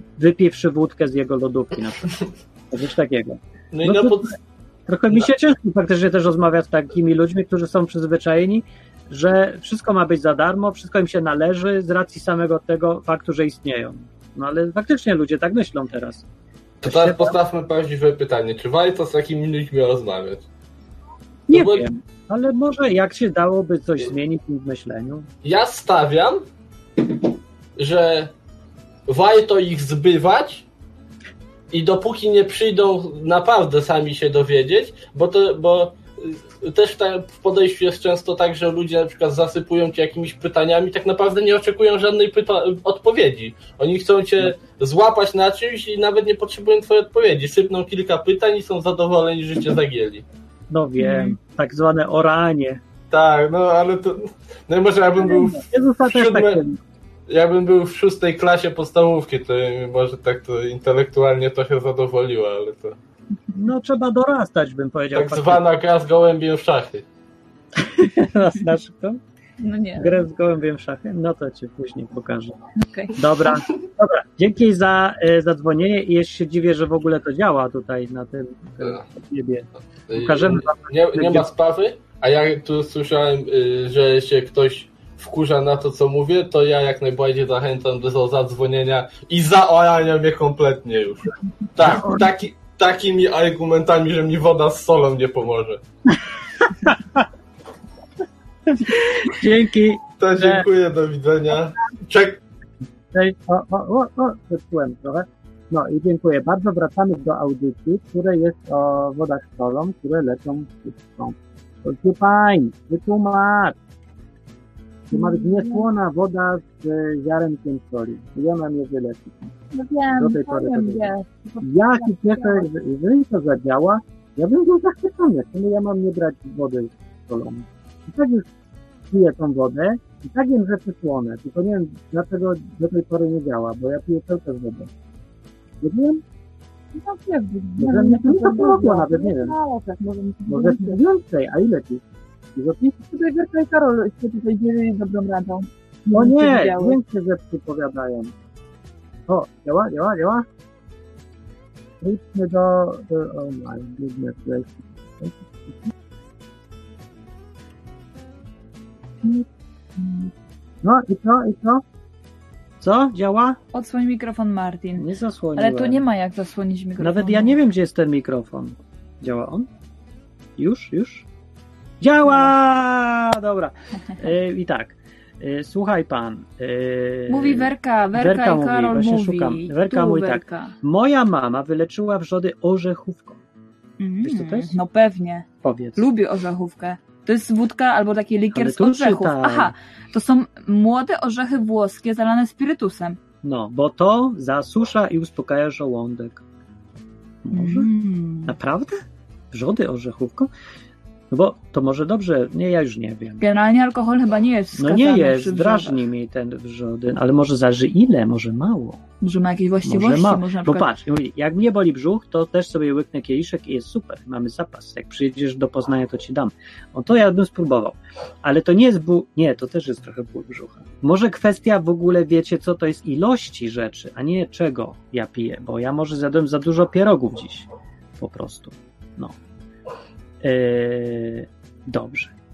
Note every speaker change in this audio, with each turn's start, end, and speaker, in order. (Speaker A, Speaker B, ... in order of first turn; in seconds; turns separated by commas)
Speaker A: 0.2-2.1, Speaker A: 2.7-4.3, Speaker B: 3.7-4.3, Speaker A: 4.9-16.2, Speaker A: 16.8-17.4, Speaker B: 16.9-20.5, Speaker A: 21.5-25.3, Speaker B: 21.5-21.9, Speaker B: 25.4-26.4, Speaker B: 27.8-28.3, Speaker B: 29.1-30.7, Speaker B: 31.7-50.2, Speaker A: 50.7-52.8, Speaker C: 51.0-51.4, Speaker B: 53.1-56.6, Speaker A: 55.2-56.8, Speaker B: 57.3-63.0, Speaker A: 63.5-65.6, Speaker B: 65.2-67.0, Speaker A: 67.8-69.2, Speaker C: 69.6-70.2, Speaker A: 70.0-72.5, Speaker C: 72.8-73.2, Speaker A: 73.2-81.5, Speaker B: 80.1-95.8, Speaker A: 91.9-92.2, Speaker A: 96.1-97.2, Speaker A: 98.7-100.7, Speaker B: 100.2-102.4, Speaker A: 103.1-113.8, Speaker A: 115.1-119.5, Speaker C: 115.1-115.9, Speaker C: 119.7-122.7, Speaker A: 120.2-128.5, Speaker A: 129.1-134.9, Speaker A: 135.8-136.2, Speaker C: 137.0-141.0, Speaker A: 137.8-139.6, Speaker A: 140.5-142.0, Speaker A: 142.6-143.0, Speaker C: 143.0-147.0, Speaker A: 146.1-148.3, Speaker A: 149.3-150.5, Speaker A: 152.0-155.3, Speaker C: 160.0-160.3, Speaker A: 160.8-161.8, Speaker A: 162.8-163.6, Speaker C: 163.7-167.6, Speaker A: 165.0-166.0, Speaker A: 167.0-169.7, Speaker A: 170.6-171.3, Speaker A: 172.0-183.4, Speaker C: 177.3-180.7, Speaker C: 184.0-193.2, Speaker A: 184.2-184.8, Speaker A: 185.6-186.1, Speaker A: 188.5-189.7, Speaker A: 193.4-196.4, Speaker A: 197.4-197.9, Speaker C: 197.5-198.5, Speaker A: 198.5-200.5, Speaker A: 201.3-203.4, Speaker C: 203.4-206.1, Speaker A: 204.8-209.0, Speaker C: 209.2-210.9, Speaker A: 209.8-227.7, Speaker A: 228.2-229.3, Speaker A: 230.4-232.3